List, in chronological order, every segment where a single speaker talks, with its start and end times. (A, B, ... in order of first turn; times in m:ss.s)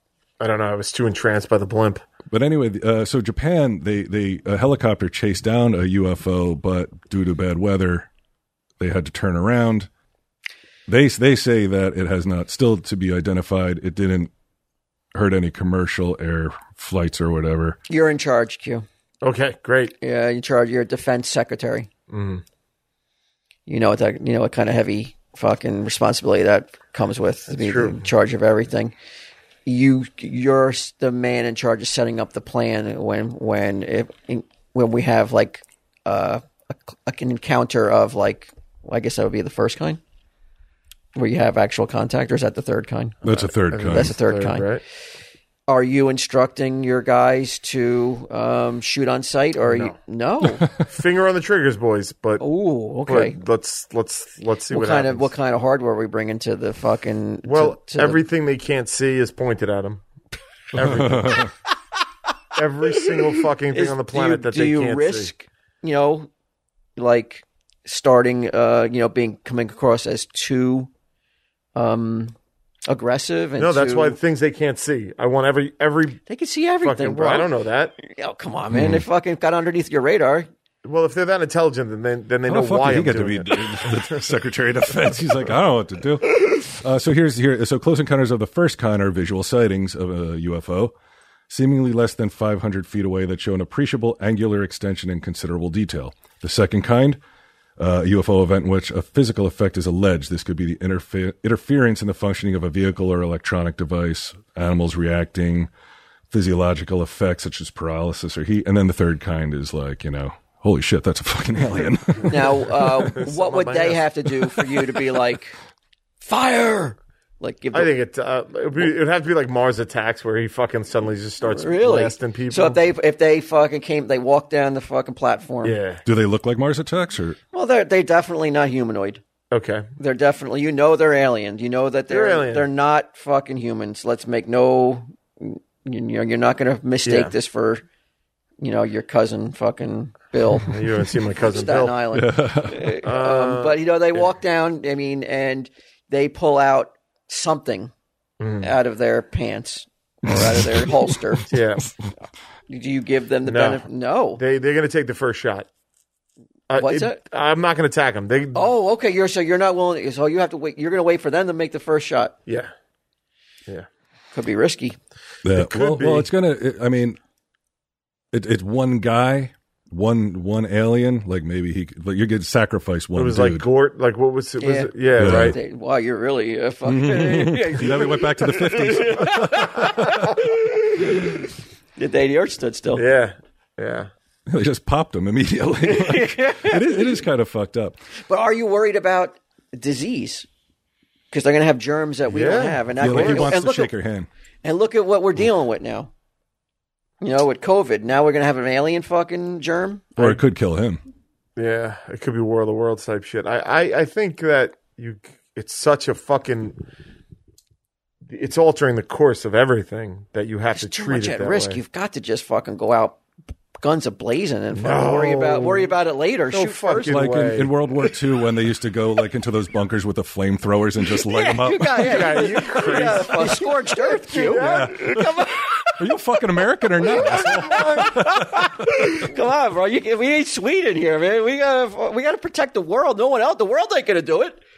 0:00.4-0:02.0 A
0:02.3-0:08.1 B
0:08.8-0:09.9 B
0:10.9-0:14.3 B
0:15.1-0:17.8 B
0:17.9-0:18.9 C
0:19.2-0:20.0 A
0:20.0-0:21.9 C
0:22.1-0:22.4 A
0:23.7-0:29.0 C
0:27.5-0:28.1 A
0:29.7-0:40.0 C
0:41.2-0:44.7 C
0:43.2-0:44.1 B
0:43.3-0:44.8 A
0:45.7-0:50.7 C
0:49.6-0:50.0 A
0:50.4-0:50.9 B
0:50.8-0:52.4 A
0:52.4-0:53.4 C
0:53.0-0:55.3 A
0:54.7-0:58.2 C
0:57.5-1:00.0 A
1:00.7-1:01.5 A
1:00.8-1:01.5 B
1:02.5-1:05.3 A
1:03.7-1:06.3 C
1:07.0-1:10.9 C
1:11.8-1:12.4 C
1:12.9-1:14.2 C
1:13.6-1:16.2 A
1:16.3-1:20.5 C
1:16.8-1:18.0 A
1:18.7-1:19.0 B
1:20.8-1:24.2 A
1:22.5-1:30.9 B
1:31.5-1:37.2 B
1:37.8-1:45.7 B
1:46.3-1:52.7 B
1:52.2-1:55.6 C
1:52.5-1:54.1 A
1:56.2-1:57.9 C
1:57.7-2:02.8 A
2:01.5-2:05.8 C
2:05.6-2:06.0 A
2:06.1-2:07.4 B
2:07.5-2:09.2 C
2:09.5-2:09.9 A
2:10.0-2:17.8 C
2:12.1-2:12.7 A
2:17.0-2:17.3 A
2:18.6-2:20.8 C
2:20.5-2:22.0 A
2:21.4-2:27.9 C
2:22.1-2:23.0 B
2:23.0-2:24.2 A
2:28.4-2:28.7 A
2:28.6-2:31.5 C
2:30.3-2:31.4 B
2:31.5-2:31.9 A
2:32.7-2:34.4 C
2:33.5-2:35.7 A
2:36.7-2:38.7 A
2:36.8-2:37.2 C
2:38.6-2:42.4 C
2:44.3-2:45.0 C
2:45.4-2:47.2 B
2:45.5-2:46.3 A
2:48.3-2:53.7 B
2:53.1-2:55.6 A
2:54.6-3:03.0 C
2:55.2-2:55.6 B
2:56.9-3:00.2 B
3:03.0-3:04.1 A
3:04.5-3:08.0 B
3:05.8-3:07.2 C
3:08.3-3:10.5 C
3:11.3-3:13.9 C
3:12.3-3:13.6 A
3:13.0-3:14.3 B
3:14.6-3:16.1 C
3:17.2-3:20.4 C
3:20.2-3:21.0 B
3:21.6-3:26.8 A
3:28.2-3:31.8 A
3:30.7-3:33.2 C
3:33.8-3:37.2 C
3:34.8-3:36.0 A
3:36.5-3:37.7 A
3:37.1-3:42.5 B
3:41.2-3:46.0 C
3:42.0-3:45.2 A
3:44.5-3:45.3 B
3:46.0-3:49.1 B
3:47.0-3:54.6 C
3:47.2-3:48.2 A